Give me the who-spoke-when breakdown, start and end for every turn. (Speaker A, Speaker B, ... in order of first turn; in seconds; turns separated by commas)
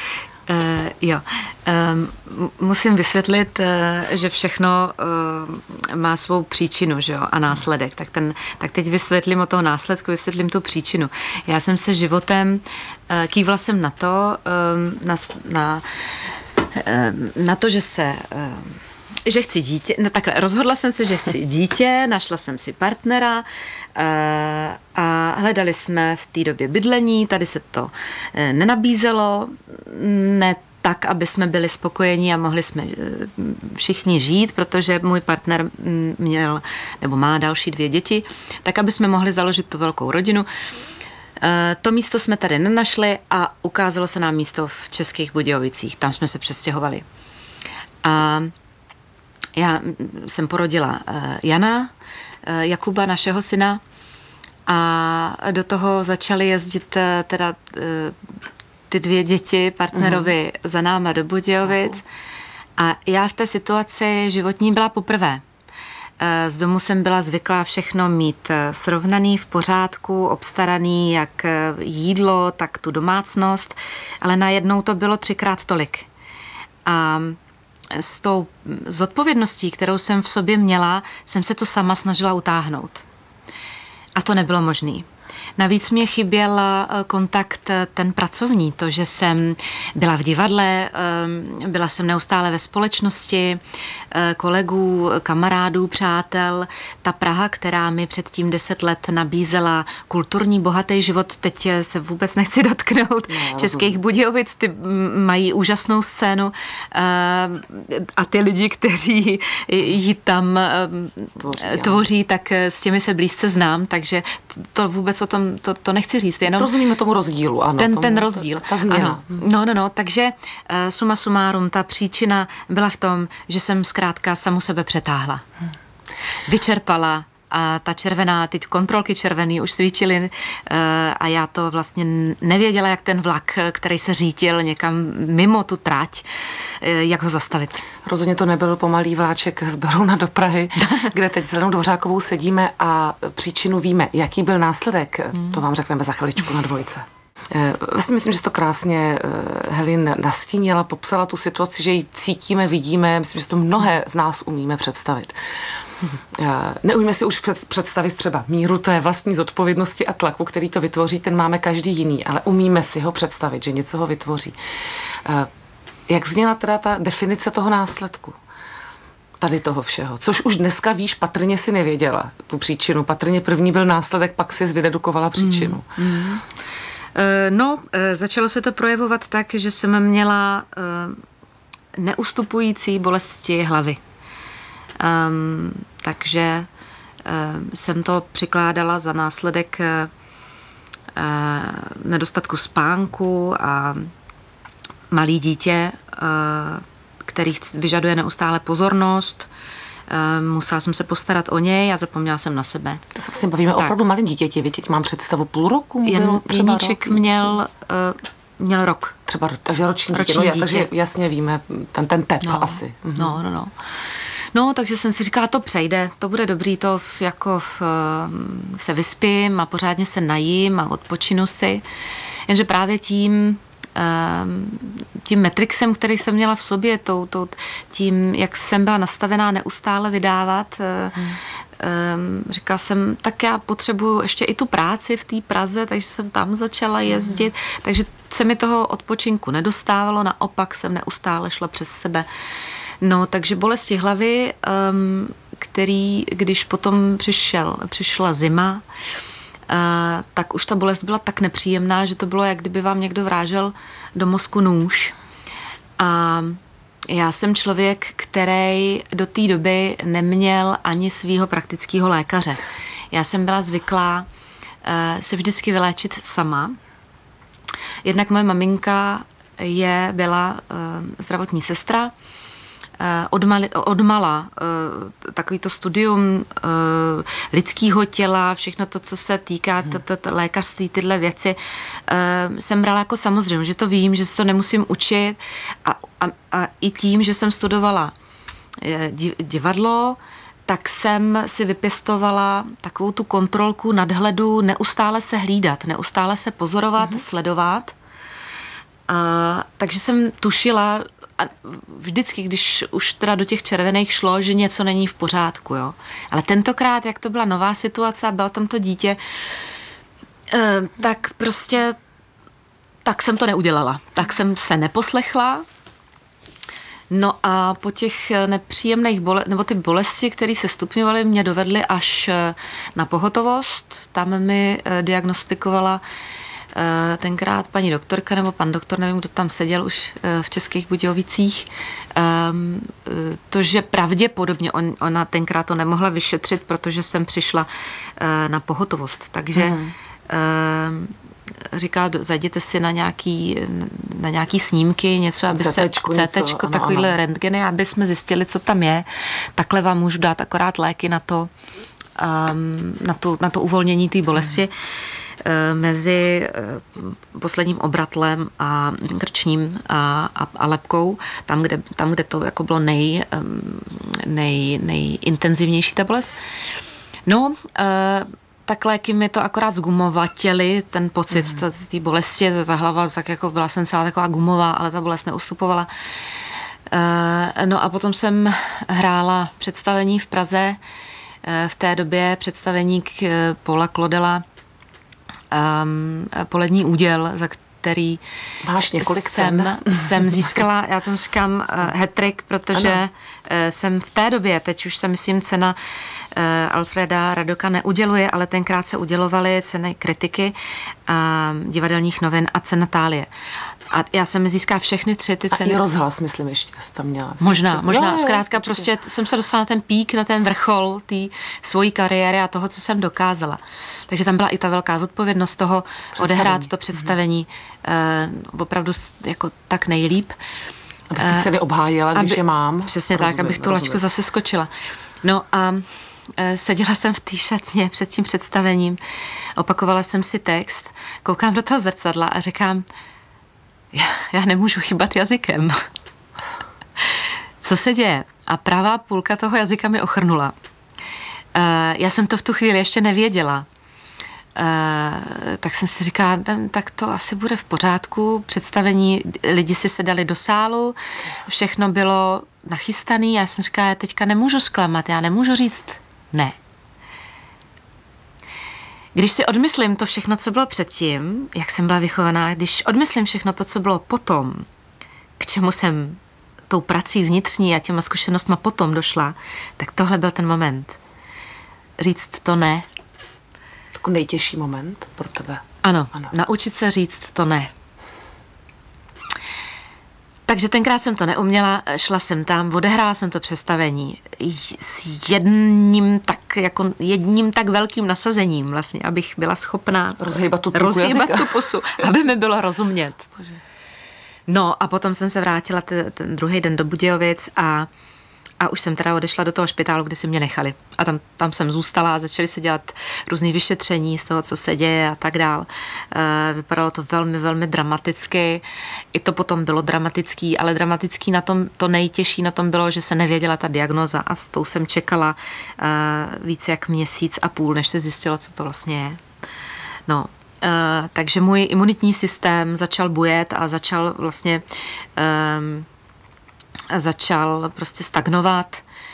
Speaker A: 0.5-40.5, Speaker A: 41.4-47.0, Speaker A: 48.0-48.5, Speaker A: 49.5-51.9, Speaker A: 52.4-53.8, Speaker A: 54.6-58.2, Speaker A: 58.9-62.0, Speaker B: 60.0-60.3, Speaker A: 62.8-65.4, Speaker A: 66.2-76.1, Speaker A: 76.8-77.4, Speaker A: 77.9-83.0, Speaker A: 84.2-116.7, Speaker B: 103.3-104.0, Speaker B: 111.4-112.0, Speaker B: 116.4-119.4, Speaker A: 117.8-125.4, Speaker A: 126.5-137.8, Speaker B: 138.0-155.4, Speaker A: 140.8-141.1, Speaker B: 156.3-164.5, Speaker B: 165.2-165.5, Speaker B: 166.1-168.4, Speaker B: 169.4-175.9, Speaker A: 175.4-176.4, Speaker A: 177.1-181.2, Speaker A: 181.9-184.0, Speaker A: 185.0-186.7, Speaker A: 187.2-190.1, Speaker A: 191.1-194.1, Speaker A: 195.1-199.5, Speaker A: 200.1-203.0, Speaker B: 203.1-207.3, Speaker A: 206.0-209.2, Speaker B: 209.3-213.4, Speaker A: 210.1-210.9, Speaker A: 212.4-221.8, Speaker A: 222.5-242.3, Speaker A: 243.0-248.8, Speaker A: 249.7-255.2, Speaker A: 256.0-264.3, Speaker A: 264.8-266.8, Speaker A: 268.0-272.1, Speaker A: 273.0-288.1, Speaker A: 288.8-297.9, Speaker A: 299.1-309.2, Speaker A: 310.5-312.0, Speaker A: 313.0-315.6, Speaker A: 317.1-326.0, Speaker A: 326.7-339.8, Speaker B: 339.6-339.9, Speaker A: 340.3-351.5, Speaker B: 345.5-347.2, Speaker A: 352.1-354.7, Speaker A: 355.4-366.3, Speaker A: 367.2-380.8, Speaker A: 381.4-384.4, Speaker A: 385.5-388.2, Speaker B: 388.6-390.6, Speaker A: 389.0-400.5, Speaker A: 401.1-403.3, Speaker A: 403.9-405.8, Speaker B: 405.5-408.9, Speaker A: 407.4-420.4, Speaker B: 416.2-416.7, Speaker B: 421.1-424.0, Speaker A: 421.2-421.5, Speaker A: 422.1-424.7, Speaker A: 425.2-432.9, Speaker A: 433.9-435.8, Speaker A: 437.0-440.5, Speaker A: 441.5-443.7, Speaker A: 444.6-456.6, Speaker A: 459.1-464.6, Speaker A: 465.4-471.0, Speaker A: 472.0-472.9, Speaker B: 473.9-476.3, Speaker A: 475.8-477.7, Speaker A: 480.4-493.3, Speaker B: 490.2-492.1, Speaker A: 494.5-497.9, Speaker A: 498.6-519.2, Speaker A: 520.1-525.9, Speaker A: 526.9-528.8